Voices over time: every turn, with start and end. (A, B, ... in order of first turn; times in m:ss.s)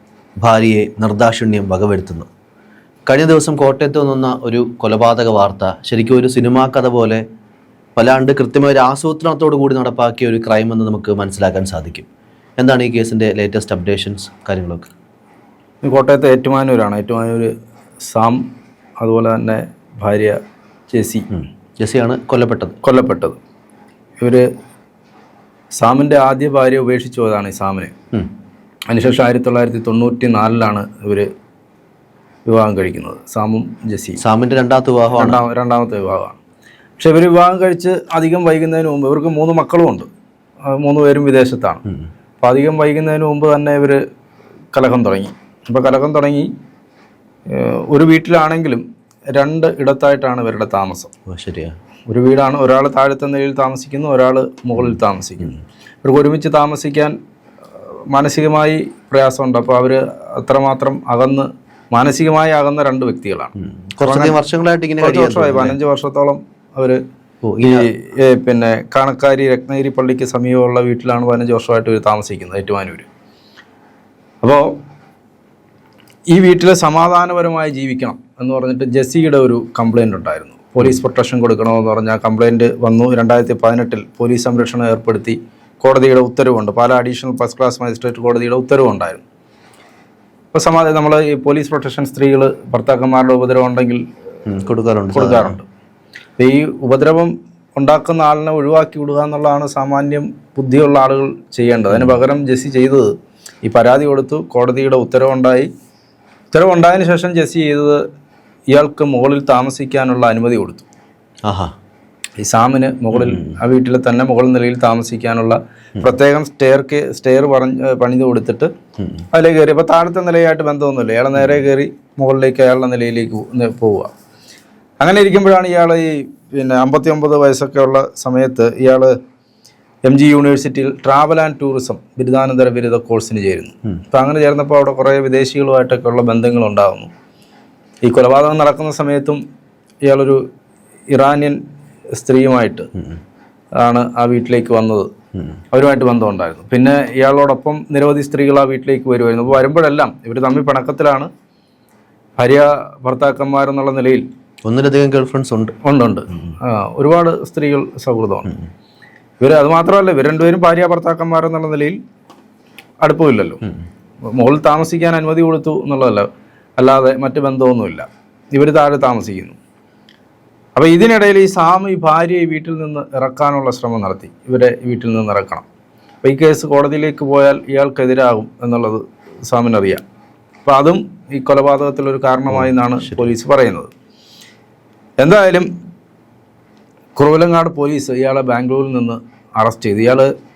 0:00.4-0:02.3 A
0:03.0-0:07.2 A
0:08.0-0:12.0 A
0:12.6-0:14.9 A
0:15.8-0:17.5 B
0:18.0-0:18.4 B
0:19.0-0:21.3 B
0:21.3-0:22.8 A
0:22.8-0:23.4 B
0:24.2-0:24.5 B
0:25.7-0:27.9 B
0:28.9-0:31.3 B
0:32.4-0:34.2 B
0:34.2-0:35.4 A
0:35.1-0:36.4 B
0:37.0-0:40.1 B
0:40.6-0:41.8 B
0:42.4-0:44.0 B
0:44.7-0:46.5 B
0:47.5-0:51.1 B
0:51.3-0:51.8 A
0:52.1-0:57.2 B
0:58.1-1:04.4 B
1:03.6-1:05.8 A
1:05.0-1:07.0 B
1:07.4-1:07.9 A
1:07.6-1:13.1 B
1:14.4-1:14.8 B
1:16.3-1:29.2 B
1:30.5-1:34.0 B
1:34.5-1:35.6 A
1:35.1-1:35.6 B
1:36.4-1:43.1 B
1:43.6-1:45.7 B
1:46.5-1:48.0 B
1:48.7-1:50.8 B
1:51.4-1:51.7 A
1:52.4-1:58.7 B
1:53.2-1:53.5 A
1:59.0-1:59.2 A
1:59.3-2:04.1 B
2:05.0-2:09.1 B
2:10.0-2:17.1 B
2:18.0-2:19.4 B
2:20.0-2:20.4 B
2:21.1-2:21.6 B
2:22.1-2:22.9 B
2:23.8-2:25.1 B
2:25.7-2:31.3 B
2:32.4-2:34.2 B
2:34.7-2:35.8 A
2:35.8-2:38.5 B
2:39.4-2:42.0 B
2:43.0-2:43.6 B
2:44.3-2:49.6 B
2:50.8-2:55.6 B
2:56.2-3:00.0 B
3:00.6-3:03.9 B
3:02.5-3:03.3 A
3:05.2-3:05.7 B
3:07.2-3:10.3 B